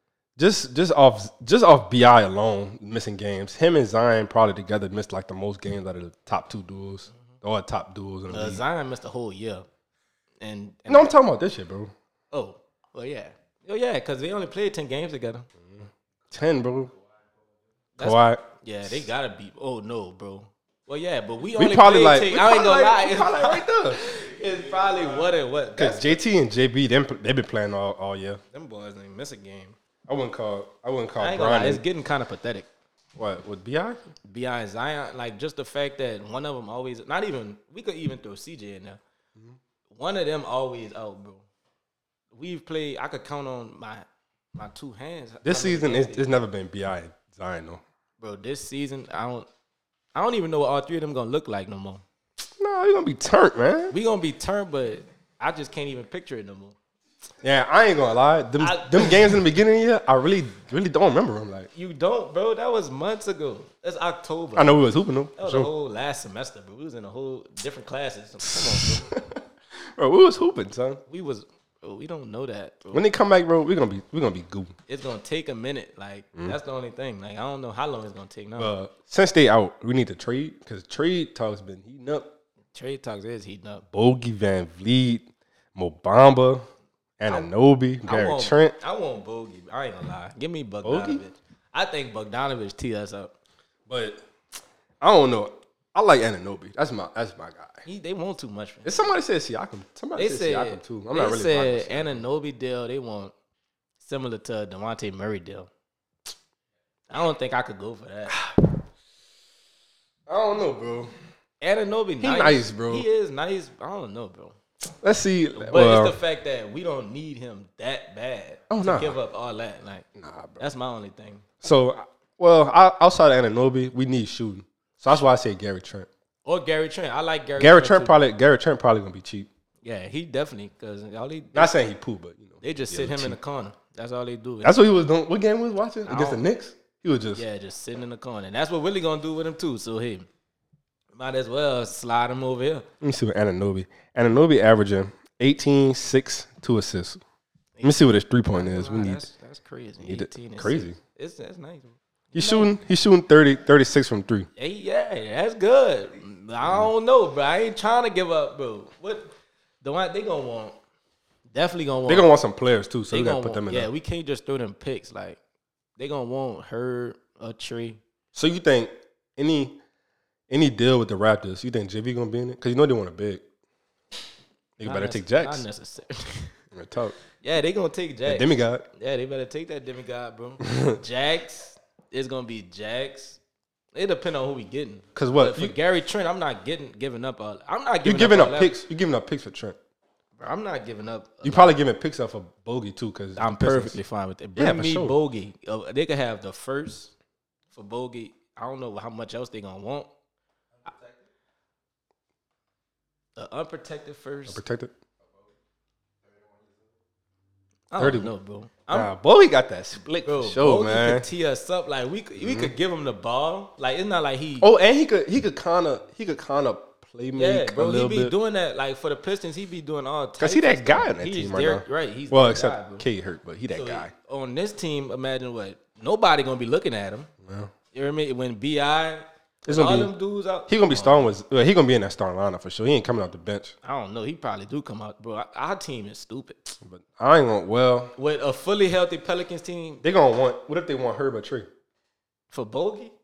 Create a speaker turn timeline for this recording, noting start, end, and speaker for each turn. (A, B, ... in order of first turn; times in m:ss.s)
0:00.4-0:08.6 A
0:08.3-0:09.6 B
0:10.4-0:11.1 B
0:10.9-0:11.9 A
0:12.3-0:15.5 B
0:15.6-0:16.9 A
0:18.0-0:26.1 B
0:18.0-0:19.0 A
0:21.6-0:24.0 A
0:25.8-0:28.4 A
0:28.5-0:29.8 B
0:30.1-0:31.8 A
0:31.2-0:32.7 B
0:33.2-0:34.0 A
0:34.3-0:39.0 B
0:39.9-0:41.4 B
0:42.3-0:46.3 B
0:45.4-0:47.8 A
0:48.2-0:49.5 B
0:50.1-0:52.0 B
0:52.6-0:53.9 A
0:53.9-0:56.8 B
0:57.4-1:01.7 A
0:58.6-0:59.4 B
1:01.7-1:04.8 B
1:04.6-1:05.7 A
1:05.4-1:09.1 B
1:08.4-1:11.0 A
1:11.1-1:13.0 B
1:12.9-1:14.7 A
1:14.9-1:18.7 B
1:18.6-1:22.3 A
1:22.7-1:23.8 B
1:23.9-1:26.7 A
1:27.2-1:28.8 A
1:28.0-1:33.3 B
1:30.8-1:31.2 A
1:33.9-1:34.2 A
1:35.0-1:37.8 A
1:37.8-1:39.1 B
1:38.8-1:42.2 A
1:40.1-1:43.3 B
1:44.0-1:45.7 B
1:47.1-1:48.4 B
1:48.3-1:48.7 A
1:50.3-1:51.1 A
1:51.6-1:54.6 B
1:52.2-1:53.0 A
1:55.0-1:56.2 A
1:55.6-2:00.0 B
1:58.7-1:59.2 A
2:00.2-2:00.6 A
2:00.6-2:01.4 B
2:01.6-2:06.1 A
2:06.4-2:08.2 B
2:07.6-2:09.5 A
2:09.8-2:11.7 B
2:11.5-2:13.4 A
2:12.6-2:14.8 B
2:14.6-2:17.4 A
2:16.1-2:16.4 B
2:17.4-2:20.3 B
2:21.1-2:22.9 B
2:23.0-2:27.2 A
2:27.7-2:32.7 B
2:27.8-2:29.3 A
2:30.0-2:31.0 A
2:32.3-2:34.5 A
2:34.6-2:40.7 B
2:41.5-2:42.3 B
2:42.1-2:43.9 A
2:43.1-2:45.4 B
2:46.0-2:48.0 B
2:48.3-2:49.8 A
2:50.5-2:53.4 A
2:54.8-2:55.6 A
2:54.8-2:56.5 B
2:56.7-2:57.2 A
2:57.4-3:03.4 B
2:58.2-2:58.8 A
3:00.7-3:01.0 A
3:03.9-3:08.7 B
3:05.1-3:05.7 A
3:08.0-3:09.8 A
3:10.4-3:11.7 B
3:11.4-3:14.0 A
3:13.4-3:17.1 B
3:14.6-3:15.1 A
3:17.7-3:20.1 B
3:23.4-3:24.6 B
3:24.5-3:24.9 A
3:27.9-3:29.1 B
3:28.0-3:28.3 A
3:28.9-3:31.3 A
3:30.2-3:34.7 B
3:32.4-3:32.7 A
3:34.6-3:38.3 A
3:37.4-3:43.1 B
3:40.4-3:44.1 A
3:43.7-3:47.3 B
3:47.4-3:47.7 A
3:47.9-3:51.3 B
3:49.7-3:50.1 A
3:50.7-3:53.7 A
3:53.8-3:56.7 B
3:56.8-3:58.1 A
3:58.2-4:00.0 B
4:00.0-4:01.7 A
4:02.5-4:03.1 B